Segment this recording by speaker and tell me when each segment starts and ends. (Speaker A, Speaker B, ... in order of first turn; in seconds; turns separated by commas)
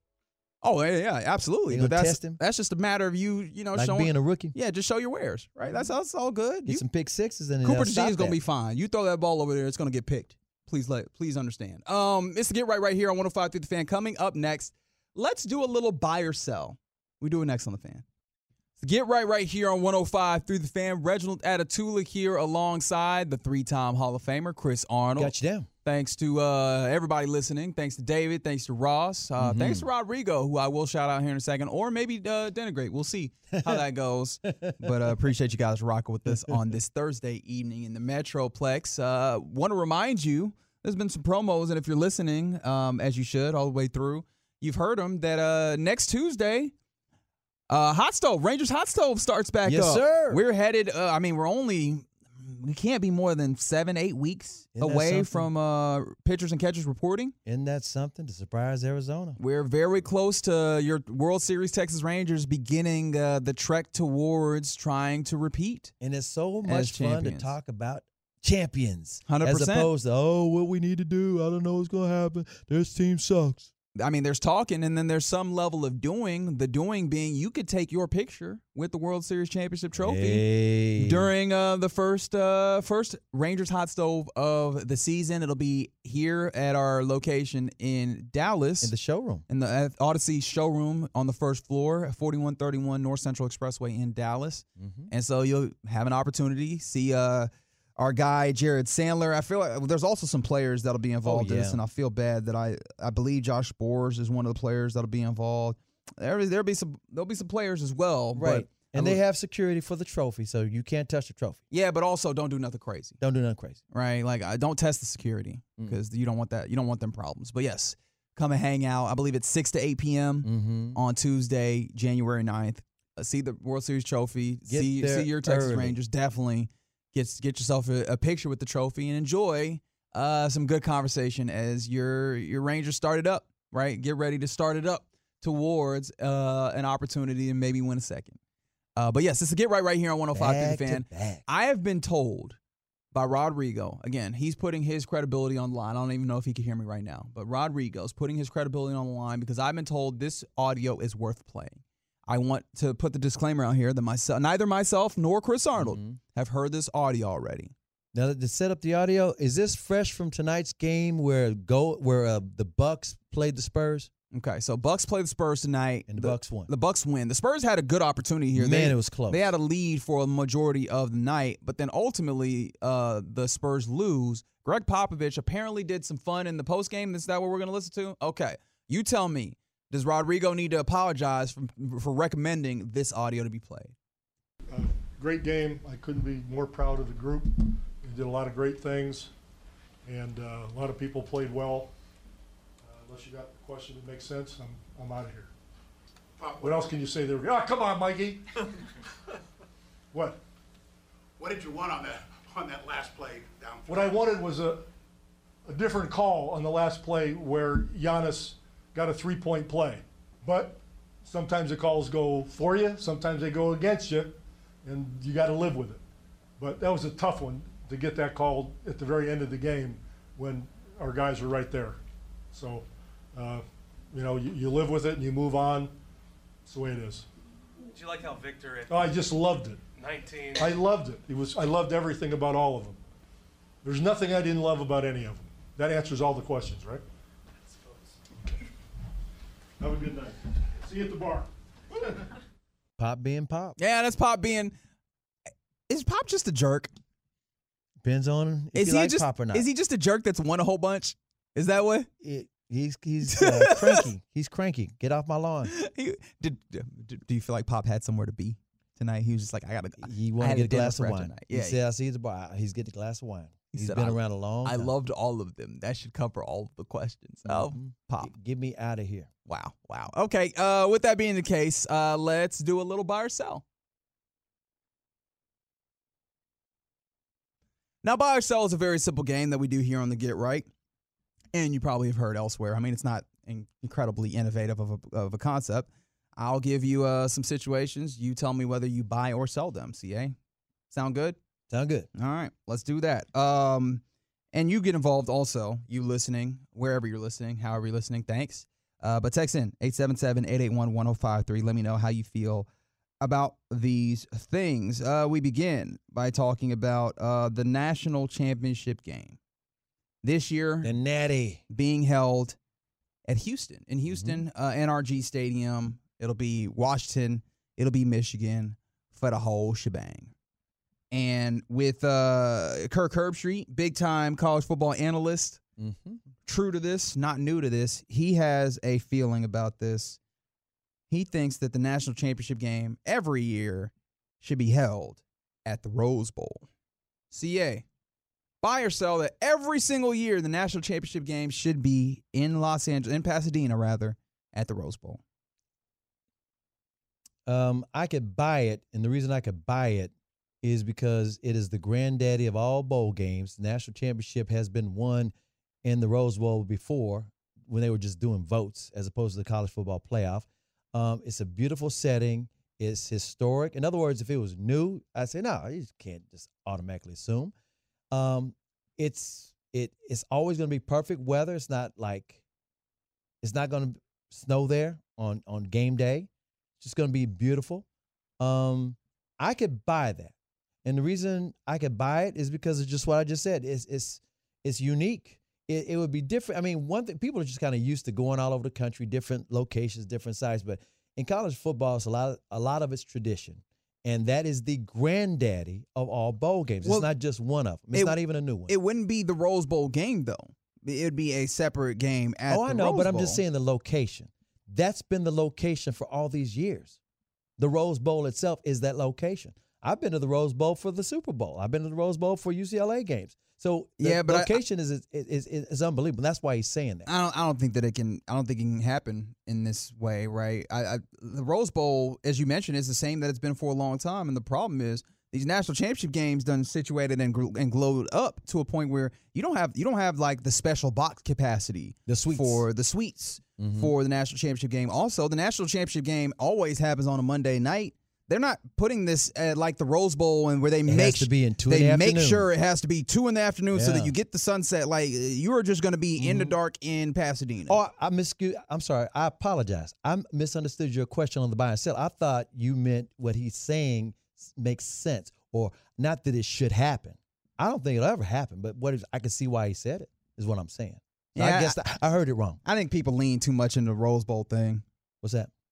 Speaker A: 0.6-6.8, Speaker B: 1.7-2.4, Speaker B: 3.7-4.5, Speaker B: 5.6-5.9, Speaker B: 6.6-8.4, Speaker A: 7.6-18.0, Speaker A: 18.8-25.3, Speaker B: 25.1-25.7, Speaker A: 25.8-46.7, Speaker B: 29.4-29.9, Speaker B: 33.6-33.8, Speaker B: 34.5-34.9, Speaker B: 36.2-36.6, Speaker A: 47.7-57.3, Speaker B: 49.6-50.4, Speaker B: 54.7-55.5, Speaker B: 57.4-59.4, Speaker A: 59.4-65.9, Speaker B: 66.0-73.7, Speaker A: 66.6-67.5, Speaker A: 69.3-69.9, Speaker A: 74.0-80.4, Speaker B: 80.0-81.3, Speaker A: 81.0-88.9, Speaker B: 88.8-89.4, Speaker A: 89.5-109.2, Speaker B: 94.8-95.1, Speaker B: 101.2-101.8, Speaker B: 108.3-111.6, Speaker A: 111.7-113.2, Speaker B: 113.2-113.8, Speaker A: 113.9-138.4, Speaker B: 120.4-121.0, Speaker B: 124.7-126.0, Speaker A: 139.0-142.6, Speaker B: 140.3-141.4, Speaker A: 143.1-157.7, Speaker B: 155.8-156.2, Speaker B: 158.1-164.1, Speaker A: 164.3-183.9, Speaker B: 166.1-166.7, Speaker B: 168.5-169.5, Speaker C: 184.7-189.3, Speaker C: 190.0-191.9, Speaker C: 192.8-195.5, Speaker D: 196.4-197.0, Speaker C: 196.6-198.4, Speaker C: 200.1-200.4, Speaker D: 201.4-204.2, Speaker C: 203.9-204.8, Speaker C: 205.7-216.0, Speaker C: 216.6-222.0, Speaker C: 222.5-225.9, Speaker C: 226.7-227.3, Speaker E: 227.9-229.2, Speaker C: 228.9-229.8, Speaker E: 230.0-230.8, Speaker C: 230.6-233.0, Speaker C: 233.8-237.0, Speaker E: 237.6-238.2, Speaker C: 239.8-241.5, Speaker B: 243.0-243.8, Speaker A: 243.8-244.7, Speaker A: 245.9-246.9, Speaker B: 248.0-249.7, Speaker A: 248.7-252.1, Speaker B: 252.2-255.7, Speaker A: 253.3-254.1, Speaker A: 255.7-261.8, Speaker B: 260.0-264.9, Speaker A: 263.7-268.3, Speaker B: 267.4-269.3, Speaker A: 269.5-273.6, Speaker A: 278.0-280.7, Speaker A: 281.5-290.3, Speaker A: 290.9-291.4, Speaker B: 291.7-292.1, Speaker A: 292.1-294.0, Speaker A: 294.5-302.7, Speaker A: 303.2-309.4, Speaker A: 310.2-310.9, Speaker B: 310.8-311.6, Speaker A: 311.7-312.6, Speaker A: 313.2-320.3, Speaker B: 314.1-314.4, Speaker A: 321.1-325.6, Speaker B: 325.8-326.2, Speaker A: 326.4-330.2, Speaker A: 331.1-336.7, Speaker A: 337.3-337.8, Speaker A: 338.6-345.2, Speaker B: 347.4-367.5, Speaker B: 368.1-372.4, Speaker B: 373.4-376.3, Speaker B: 376.8-377.9, Speaker B: 378.4-398.7, Speaker A: 398.7-403.4, Speaker B: 402.5-407.0, Speaker B: 407.6-417.1, Speaker A: 414.0-414.6, Speaker A: 417.1-447.8, Speaker B: 432.1-432.6, Speaker B: 433.6-433.9, Speaker B: 440.9-442.5, Speaker B: 443.7-444.1, Speaker B: 446.2-446.6, Speaker B: 447.7-462.6, Speaker A: 461.3-462.0, Speaker A: 462.6-464.8, Speaker B: 465.2-465.5